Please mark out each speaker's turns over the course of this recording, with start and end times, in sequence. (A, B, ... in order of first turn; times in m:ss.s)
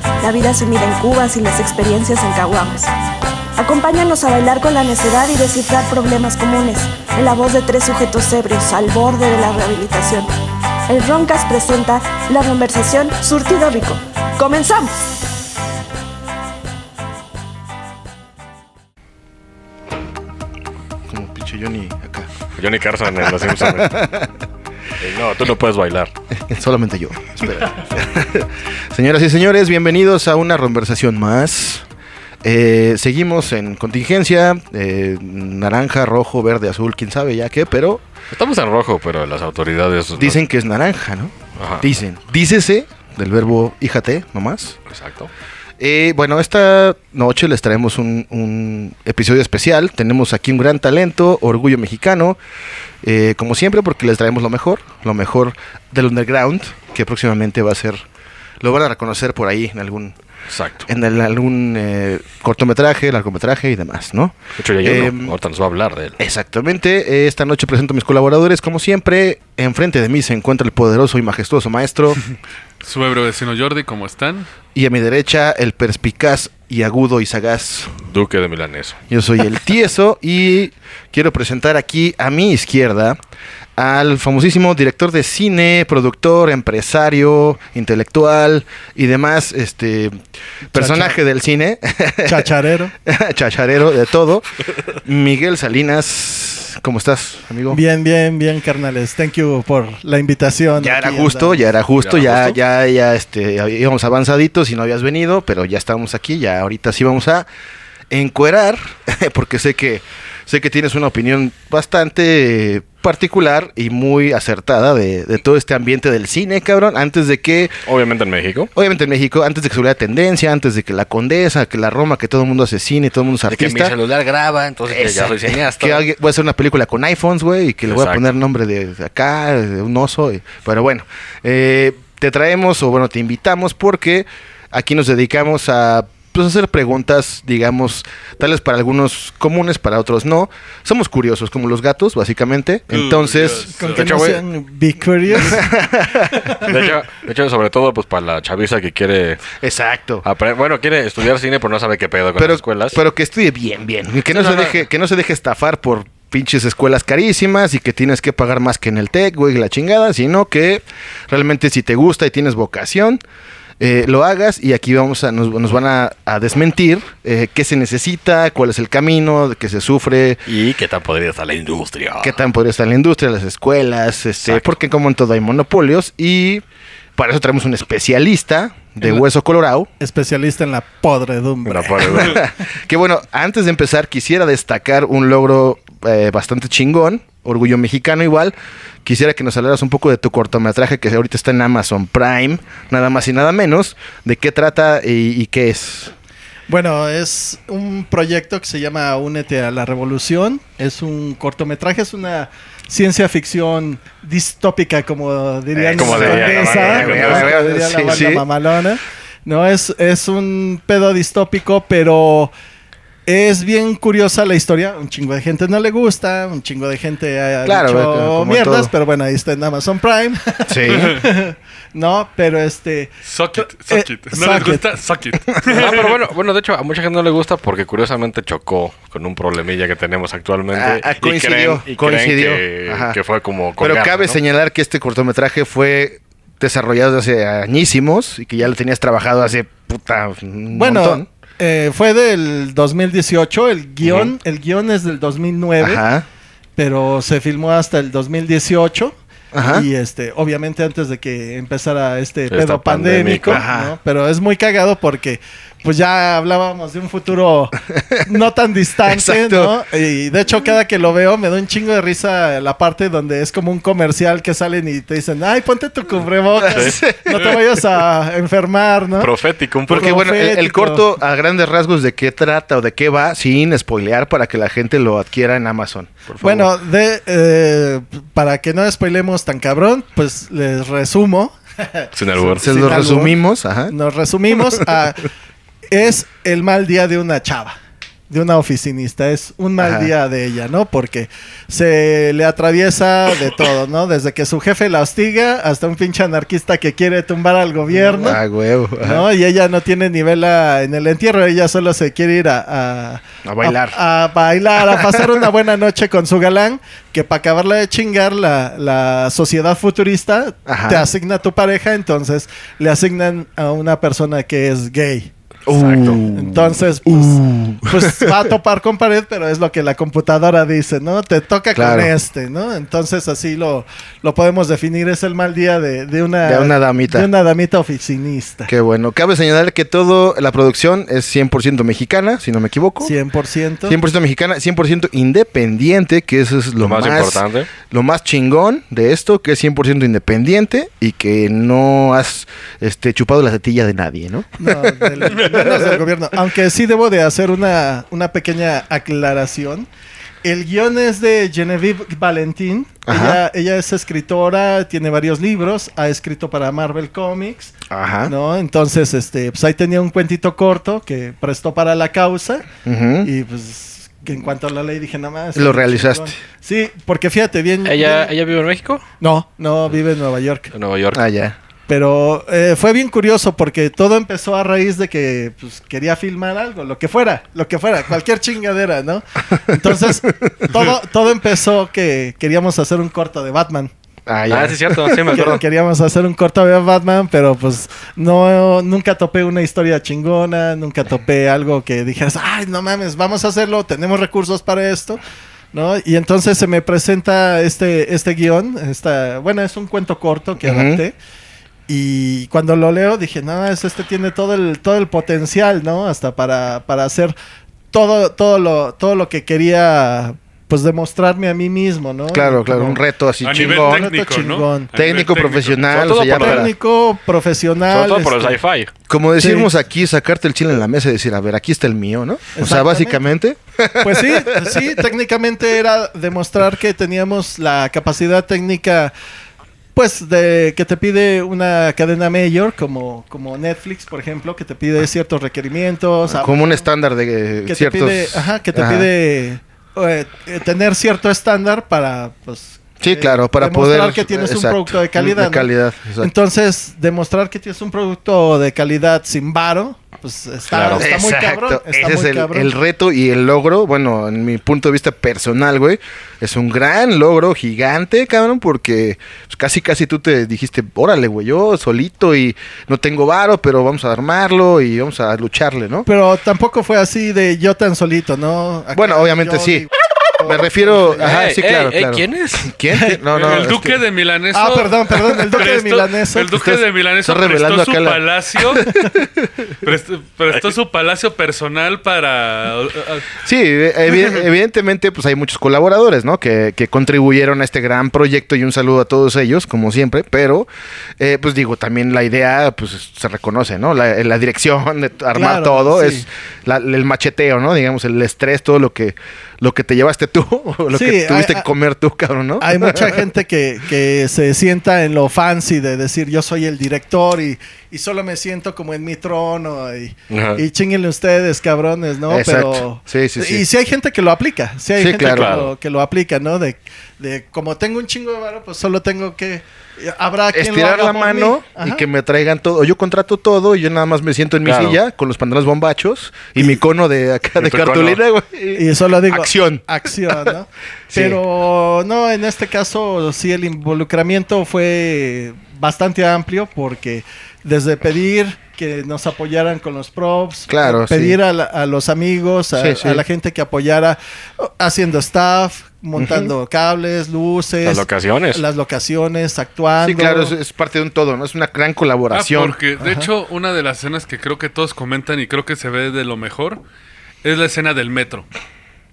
0:00.2-0:02.9 A
0:03.6-0:10.3 A
0:10.9-0:15.0 A
0:21.1-0:22.3 B
0:22.6-0:24.0 C
0:23.2-0:24.3 B
0:25.0-0:26.1 C
0:26.4-0:31.9 B
0:32.4-0:38.0 B
0:38.3-0:40.4 C
0:40.2-0:44.8 B
0:41.6-0:41.9 C
0:44.9-0:45.3 C
0:45.8-0:52.4 B
0:53.0-0:58.0 B
0:58.6-1:00.2 B
1:00.5-1:00.9 C
1:00.9-1:05.4 B
1:04.6-1:06.2 C
1:06.2-1:12.2 B
1:12.8-1:14.5 D
1:14.8-1:18.0 B
1:18.0-1:19.0 C
1:19.1-1:23.2 B
1:23.8-1:30.2 B
1:30.7-1:32.5 B
1:30.7-1:31.2 E
1:32.2-1:32.9 E
1:33.0-1:34.4 B
1:35.0-1:37.8 B
1:37.7-1:41.7 E
1:40.8-1:47.5 B
1:42.0-1:42.6 C
1:48.1-1:57.8 B
1:57.9-1:58.7 C
1:58.7-2:04.0 B
2:03.5-2:06.0 C
2:04.9-2:24.4 B
2:07.9-2:08.2 C
2:22.9-2:24.1 D
2:23.8-2:25.7 E
2:25.3-2:26.5 B
2:26.3-2:26.7 E
2:26.6-2:29.5 C
2:29.6-2:30.2 B
2:30.2-2:33.0 C
2:32.4-2:43.2 B
2:34.3-2:34.8 C
2:43.8-2:50.4 B
2:50.5-2:52.5 C
2:52.2-2:56.6 B
2:57.2-2:59.9 B
3:00.0-3:02.4 E
3:01.6-3:02.4 C
3:02.0-3:08.5 B
3:09.0-3:16.1 B
3:16.7-3:32.5 E
3:25.8-3:28.5 B
3:25.9-3:27.5 C
3:33.3-3:44.9 E
3:37.6-3:38.9 B
3:40.7-3:41.2 B
3:43.2-3:46.2 D
3:45.7-3:54.4 C
3:50.7-3:53.2 B
3:53.8-4:01.3 B
4:00.7-4:06.0 E
4:05.8-4:06.3 B
4:06.8-4:29.3 E
4:09.5-4:09.9 B
4:12.5-4:13.7 C
4:13.5-4:13.9 B
4:17.9-4:18.2 B
4:19.1-4:19.8 B
4:26.6-4:27.8 B
4:26.7-4:27.0 C
4:29.2-4:30.2 C
4:29.9-4:31.1 E
4:29.9-4:36.2 B
4:36.3-4:36.7 C
4:36.4-4:43.4 E
4:42.1-4:42.6 C
4:42.6-4:43.9 B
4:43.9-4:45.3 E
4:44.5-4:44.8 B
4:45.9-4:47.8 E
4:48.3-4:58.4 E
4:49.8-4:50.1 B
4:57.9-4:59.2 B
4:59.0-5:15.3 E
5:03.4-5:04.0 B
5:04.9-5:05.4 B
5:10.7-5:11.1 B
5:15.7-5:18.4 B
5:15.8-5:16.2 C
5:16.2-5:28.7 E
5:21.7-5:22.1 B
5:26.4-5:27.3 B
5:28.7-5:33.2 B
5:33.0-5:34.0 E
5:33.9-5:46.0 B
5:36.8-5:37.7 C
5:44.6-5:49.9 E
5:50.4-5:57.7 E
5:53.1-5:53.4 B
5:57.9-5:58.3 B
5:58.3-6:02.7 E
6:02.8-6:03.3 B
6:03.2-6:08.3 E
6:05.6-6:06.4 B
6:07.8-6:09.0 C
6:09.2-6:10.7 E
6:10.7-6:11.2 C
6:11.1-6:11.6 B
6:11.9-6:23.9 E
6:24.3-6:25.6 B
6:24.5-6:25.6 C
6:25.2-6:35.2 E
6:35.7-6:41.2 E
6:40.6-6:41.0 B
6:41.9-6:47.4 E
6:47.9-6:53.0 E
6:52.3-6:54.1 B
6:53.4-6:55.9 D
6:53.6-6:54.9 E
6:54.9-6:56.7 B
6:55.9-6:56.7 C
6:56.3-6:58.6 E
6:57.9-6:58.9 C
6:59.1-7:04.9 B
6:59.4-6:59.7 E
7:02.5-7:03.2 E
7:04.0-7:09.1 E
7:10.0-7:16.6 E
7:16.3-7:19.1 B
7:17.7-7:32.8 E
7:23.0-7:26.3 B
7:30.7-7:31.1 C
7:30.7-7:46.1 B
7:46.1-7:51.3 E
7:48.9-7:49.9 B
7:50.4-7:54.0 B
7:51.2-7:52.7 C
7:52.9-7:53.2 E
7:53.3-7:59.0 D
7:54.5-7:56.6 E
7:56.6-7:59.5 B
7:59.8-8:03.4 D
8:03.4-8:23.2 B
8:15.3-8:16.3 E
8:20.9-8:21.7 E
8:22.6-8:42.0 E
8:30.3-8:30.6 C
8:32.3-8:33.6 B
8:35.0-8:35.7 B
8:35.2-8:35.7 C
8:40.5-8:50.5 B
8:44.6-8:45.0 C
8:47.6-8:48.2 C
8:48.8-9:10.6 E
8:51.1-8:51.4 B
9:00.7-9:01.4 B
9:02.8-9:03.2 B
9:06.2-9:06.5 B
9:07.8-9:08.6 C
9:10.0-9:12.8 B
9:12.3-9:16.8 D
9:13.0-9:13.3 E
9:17.4-9:18.5 D